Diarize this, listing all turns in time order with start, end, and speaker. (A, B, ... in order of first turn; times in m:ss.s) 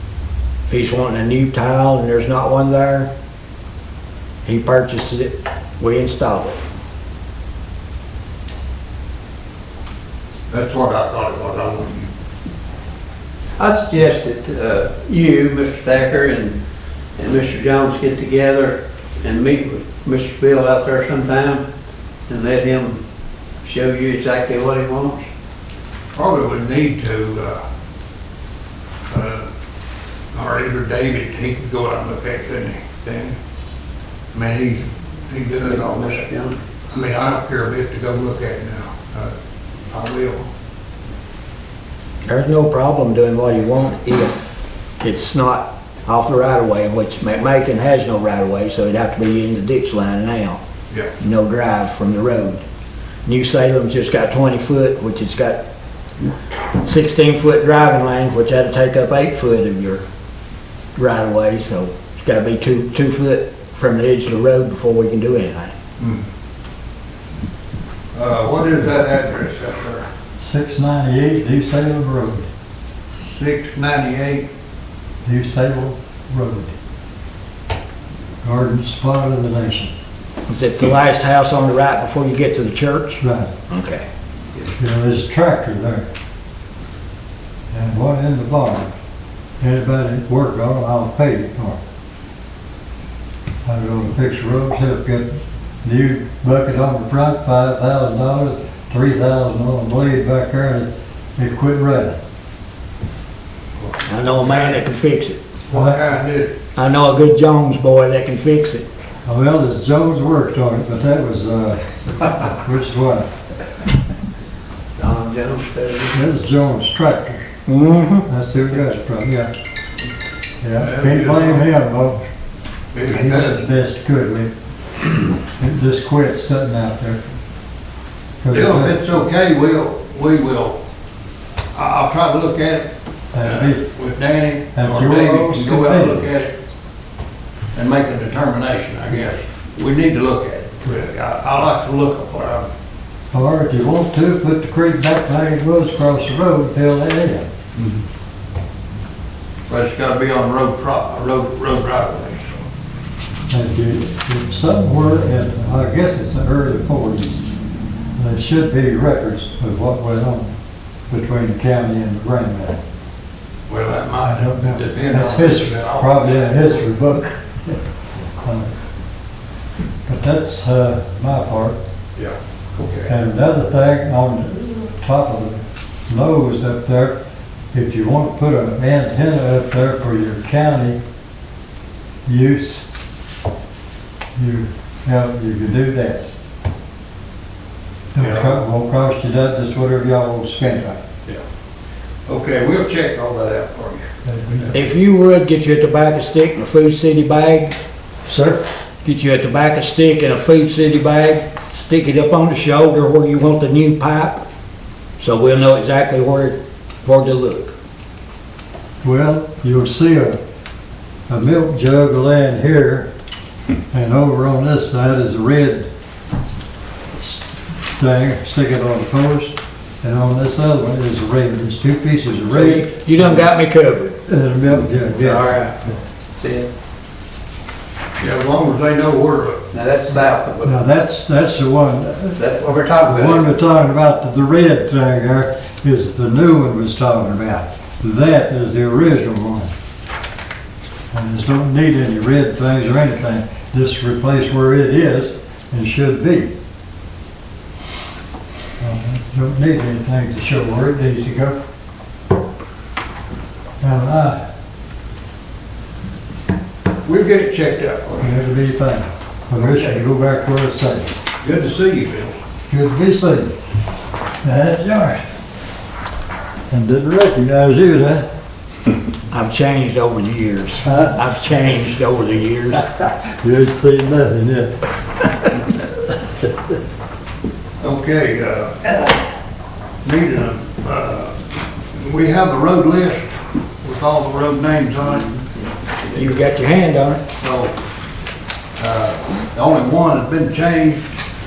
0:00.7-0:03.1 A
0:04.4-0:06.6 A
0:10.5-0:12.1 B
0:13.6-0:16.6 C
0:17.2-0:21.6 C
0:22.3-0:23.0 C
0:23.6-0:25.2 C
0:26.1-0:27.6 B
0:29.1-0:29.4 B
0:30.3-0:33.4 B
0:34.3-0:36.2 B
0:35.6-0:36.6 C
0:36.9-0:39.3 B
0:39.9-0:40.5 B
0:42.2-0:50.6 A
0:51.2-0:52.6 A
0:53.2-0:55.6 A
0:56.7-1:00.0 A
1:01.0-1:05.7 A
1:06.0-1:06.2 B
1:08.1-1:10.1 B
1:10.4-1:12.5 D
1:13.3-1:14.5 B
1:15.2-1:16.7 D
1:18.4-1:19.9 D
1:20.5-1:24.0 A
1:23.2-1:23.5 D
1:24.8-1:26.0 D
1:27.7-1:29.0 D
1:29.6-1:31.8 D
1:33.6-1:35.3 D
1:35.8-1:42.2 D
1:43.8-1:44.8 B
1:44.1-1:45.4 A
1:45.7-1:46.5 B
1:45.7-1:46.0 D
1:46.8-1:48.8 A
1:49.2-1:53.3 D
1:55.0-1:56.2 C
1:56.1-1:57.5 D
1:57.6-1:58.3 A
1:58.3-1:59.5 D
2:00.6-2:02.2 D
2:00.8-2:01.6 B
2:02.9-2:03.6 B
2:03.1-2:04.5 D
2:05.5-2:07.2 D
2:08.4-2:09.0 D
2:08.5-2:10.8 B
2:11.7-2:12.8 B
2:13.3-2:13.8 D
2:13.4-2:16.5 B
2:14.7-2:16.3 D
2:17.7-2:22.7 B
2:23.3-2:27.5 D
2:27.8-2:28.0 B
2:29.7-2:32.6 B
2:33.5-2:37.6 D
2:38.2-2:40.5 D
2:41.1-2:42.8 D
2:43.7-2:46.6 B
2:44.2-2:48.7 D
2:50.0-2:51.8 D
2:52.2-2:53.1 B
2:53.1-2:57.2 D
2:57.7-3:01.0 D
3:02.2-3:02.9 D
3:04.4-3:06.3 D
3:08.1-3:11.0 D
3:08.2-3:08.6 B
3:12.3-3:14.1 B
3:14.2-3:14.8 D
3:14.7-3:17.8 A
3:18.3-3:18.6 D
3:19.0-3:24.4 A
3:25.2-3:27.7 A
3:29.0-3:30.4 D
3:31.3-3:33.1 D
3:33.9-3:35.9 D
3:37.2-3:43.4 D
3:42.5-3:44.2 A
3:44.2-3:45.6 D
3:45.2-3:45.8 A
3:46.4-3:46.7 C
3:48.2-3:49.6 B
3:49.7-3:50.8 C
3:50.6-3:52.4 D
3:52.4-3:53.5 C
3:53.0-3:59.7 D
4:01.1-4:06.5 D
4:08.8-4:11.6 D
4:13.8-4:14.4 D
4:17.0-4:18.3 B
4:18.2-4:21.1 D
4:19.6-4:20.0 B
4:21.4-4:22.3 B
4:22.7-4:23.5 D
4:24.4-4:25.2 D
4:26.7-4:28.2 D
4:29.3-4:32.9 A
4:30.8-4:31.2 D
4:33.0-4:36.5 D
4:37.8-4:39.1 B
4:40.0-4:41.3 B
4:42.0-4:45.3 B
4:46.1-4:47.2 A
4:47.4-4:47.7 B
4:48.8-4:51.0 B